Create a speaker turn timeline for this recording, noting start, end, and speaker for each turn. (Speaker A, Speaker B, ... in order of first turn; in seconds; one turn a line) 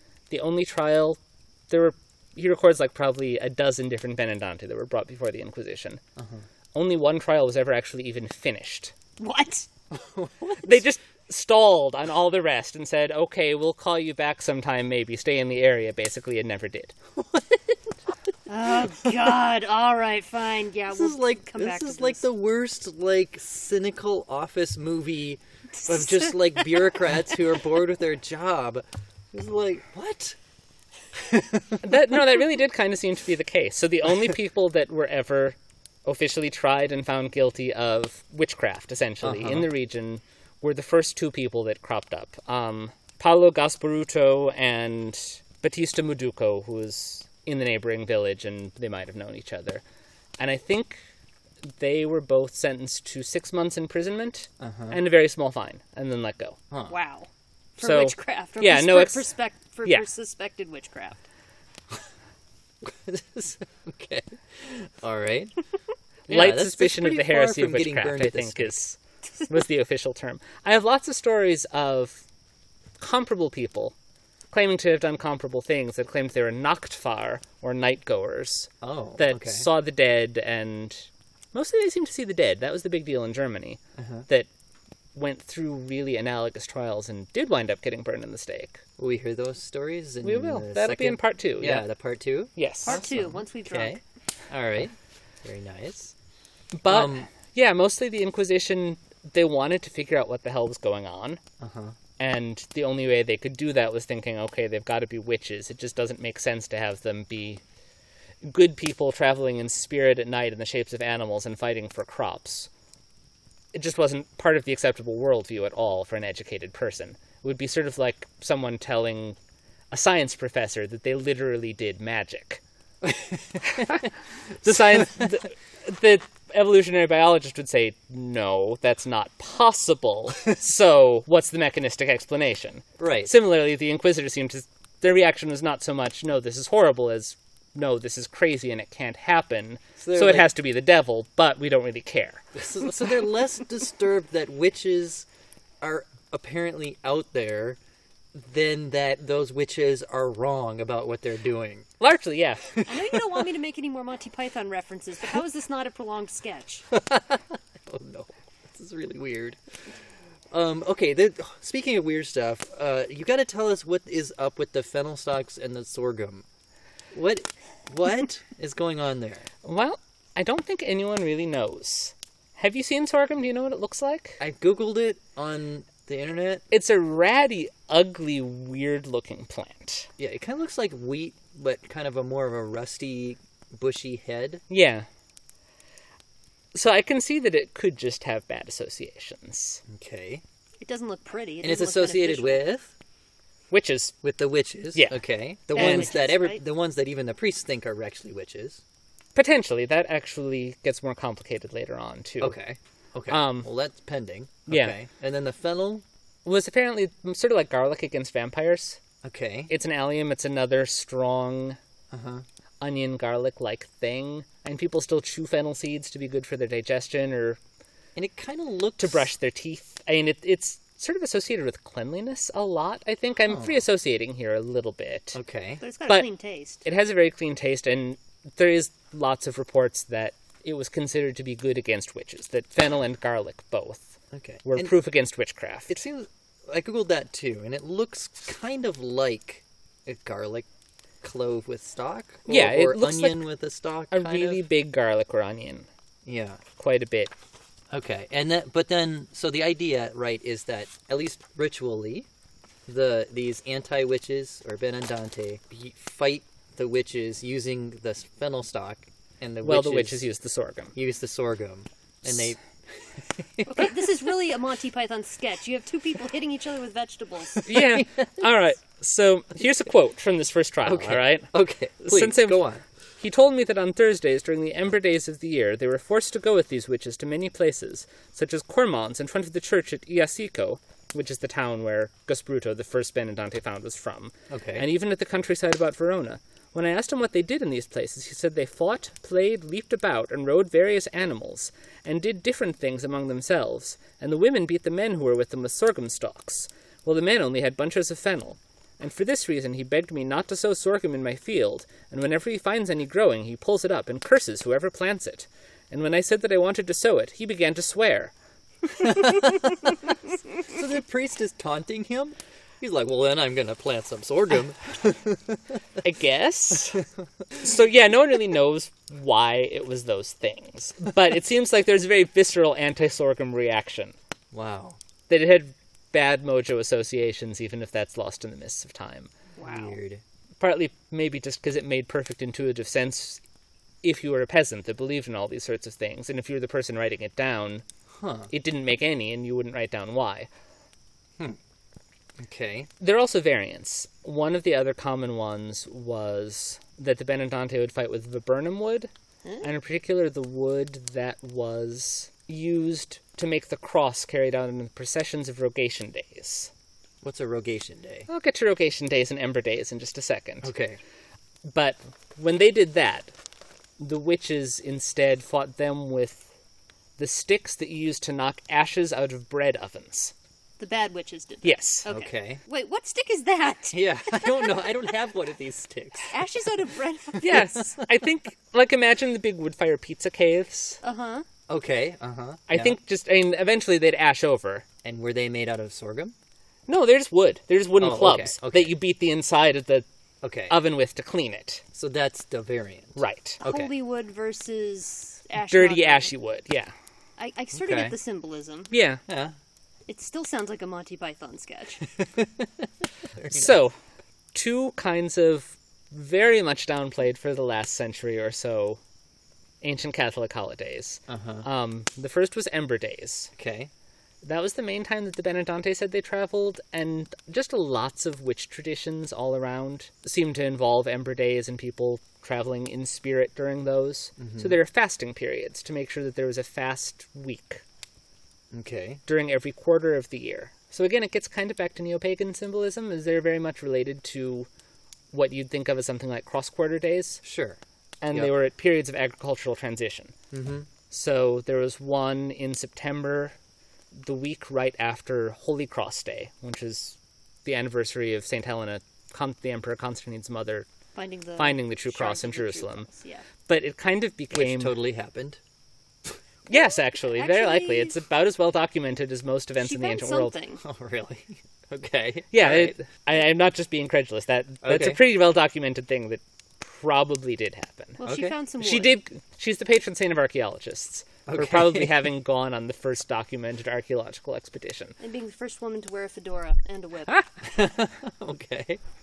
Speaker A: 0.3-6.0
Speaker B: 6.2-6.4
Speaker A: 6.7-8.9
Speaker C: 9.2-9.7
Speaker B: 9.9-10.8
Speaker A: 10.6-16.9
Speaker B: 17.1-17.8
Speaker C: 18.5-22.2
Speaker B: 20.9-30.4
Speaker C: 25.8-26.9
Speaker B: 31.1-31.8
Speaker A: 31.8-49.8
Speaker B: 39.2-39.7
Speaker A: 50.4-51.0
Speaker A: 51.7-56.6
Speaker B: 54.6-55.0
Speaker B: 56.7-57.0
Speaker C: 56.9-61.2
Speaker A: 57.8-59.3
Speaker B: 62.8-65.6
Speaker B: 66.3-68.8
Speaker A: 66.3-72.2
Speaker A: 73.0-73.9
Speaker A: 74.5-84.5
Speaker B: 78.8-79.7
Speaker B: 84.0-84.2
Speaker A: 85.1-88.8
Speaker B: 89.0-96.1
Speaker A: 90.2-91.9
Speaker A: 92.5-93.0
Speaker C: 92.8-94.0
Speaker A: 96.7-101.4
Speaker B: 96.9-97.3
Speaker B: 101.6-101.9
Speaker A: 102.2-107.6
Speaker A: 108.4-112.7
Speaker A: 113.7-119.4
Speaker A: 119.9-122.6
Speaker B: 123.0-124.1
Speaker A: 123.6-124.1
Speaker A: 124.6-142.4
Speaker B: 124.8-125.3
Speaker B: 133.0-133.3
Speaker B: 140.0-140.5
Speaker B: 142.5-145.3
Speaker B: 145.8-147.8
Speaker B: 148.3-151.9
Speaker A: 152.0-152.7
Speaker B: 152.7-153.4
Speaker C: 152.9-156.9
Speaker B: 156.9-159.6
Speaker B: 160.5-166.5
Speaker B: 167.1-169.5
Speaker A: 169.6-174.4
Speaker B: 174.4-176.6
Speaker A: 176.7-180.1
Speaker B: 180.2-184.6
Speaker A: 184.7-185.1
Speaker A: 186.7-189.8
Speaker B: 189.9-190.4
Speaker C: 190.8-192.6
Speaker B: 191.6-192.9
Speaker A: 193.7-194.2
Speaker B: 194.2-198.8
Speaker A: 194.9-196.1
Speaker C: 195.7-196.6
Speaker A: 199.3-202.6
Speaker B: 202.4-206.0
Speaker A: 203.3-203.7
Speaker A: 204.7-204.9
Speaker A: 206.4-209.0
Speaker B: 209.2-209.7
Speaker A: 209.7-211.8
Speaker B: 212.1-212.4
Speaker A: 212.8-217.6
Speaker B: 218.2-219.3
Speaker A: 219.0-225.4
Speaker B: 223.5-223.8
Speaker B: 225.3-225.8
Speaker C: 225.8-226.8
Speaker A: 226.8-236.0
Speaker B: 234.3-234.9
Speaker B: 235.9-240.7
Speaker B: 241.2-244.6
Speaker A: 242.5-243.5
Speaker A: 244.1-245.9
Speaker B: 246.2-246.6
Speaker A: 246.8-247.3
Speaker B: 247.9-252.3
Speaker B: 252.9-260.3
Speaker A: 259.6-260.9
Speaker B: 260.9-263.9
Speaker C: 263.7-267.7
Speaker B: 267.6-268.3
Speaker A: 267.6-272.6
Speaker B: 270.9-272.8
Speaker A: 273.2-308.3
Speaker B: 284.5-284.9
Speaker B: 309.0-310.0
Speaker B: 310.6-315.8
Speaker A: 316.0-317.0
Speaker A: 317.6-324.1
Speaker B: 324.5-325.0
Speaker A: 325.3-329.3
Speaker C: 329.6-329.9
Speaker B: 329.6-330.2
Speaker A: 330.6-333.4
Speaker A: 334.0-337.9
Speaker B: 338.1-338.5
Speaker A: 338.5-340.5
Speaker B: 342.4-342.9
Speaker A: 343.0-356.7
Speaker B: 357.2-358.3
Speaker A: 358.3-360.7
Speaker B: 360.6-361.0
Speaker A: 361.6-363.3
Speaker A: 364.0-366.5
Speaker A: 367.2-370.3
Speaker C: 370.8-375.1
Speaker A: 371.6-372.1
Speaker B: 372.1-372.6
Speaker B: 373.9-376.4
Speaker C: 376.3-377.6
Speaker B: 377.4-378.0
Speaker A: 377.4-381.0
Speaker C: 381.0-381.4
Speaker B: 381.7-383.0
Speaker A: 382.7-384.9
Speaker B: 385.0-386.3
Speaker A: 386.9-390.1
Speaker B: 388.0-388.9
Speaker B: 390.4-390.8
Speaker A: 390.7-391.8
Speaker B: 391.9-393.9
Speaker A: 393.2-393.6
Speaker C: 393.6-396.3
Speaker A: 395.6-396.9
Speaker C: 397.4-398.9
Speaker B: 397.7-398.1
Speaker A: 398.9-399.2
Speaker B: 399.3-399.6
Speaker C: 400.1-402.1
Speaker B: 402.2-403.8
Speaker A: 403.5-403.9
Speaker A: 404.5-409.0
Speaker A: 409.8-413.5
Speaker B: 411.3-411.6
Speaker B: 413.5-413.9
Speaker A: 414.4-427.8
Speaker B: 424.4-424.8
Speaker B: 428.7-429.2
Speaker A: 429.3-434.7
Speaker A: 435.3-437.4
Speaker B: 437.4-437.8
Speaker A: 438.2-440.4
Speaker B: 440.5-440.9
Speaker A: 441.1-443.6
Speaker A: 444.1-450.9
Speaker C: 451.1-453.4
Speaker A: 451.6-453.1
Speaker A: 453.7-455.0
Speaker B: 454.5-455.6
Speaker A: 456.6-460.6
Speaker C: 456.7-458.2
Speaker C: 459.8-460.8
Speaker B: 460.8-463.0
Speaker A: 462.5-468.2
Speaker B: 464.8-465.2
Speaker B: 468.2-468.6
Speaker C: 468.2-469.1
Speaker A: 468.8-475.1
Speaker B: 471.4-472.1
Speaker C: 475.2-477.3
Speaker B: 477.6-479.0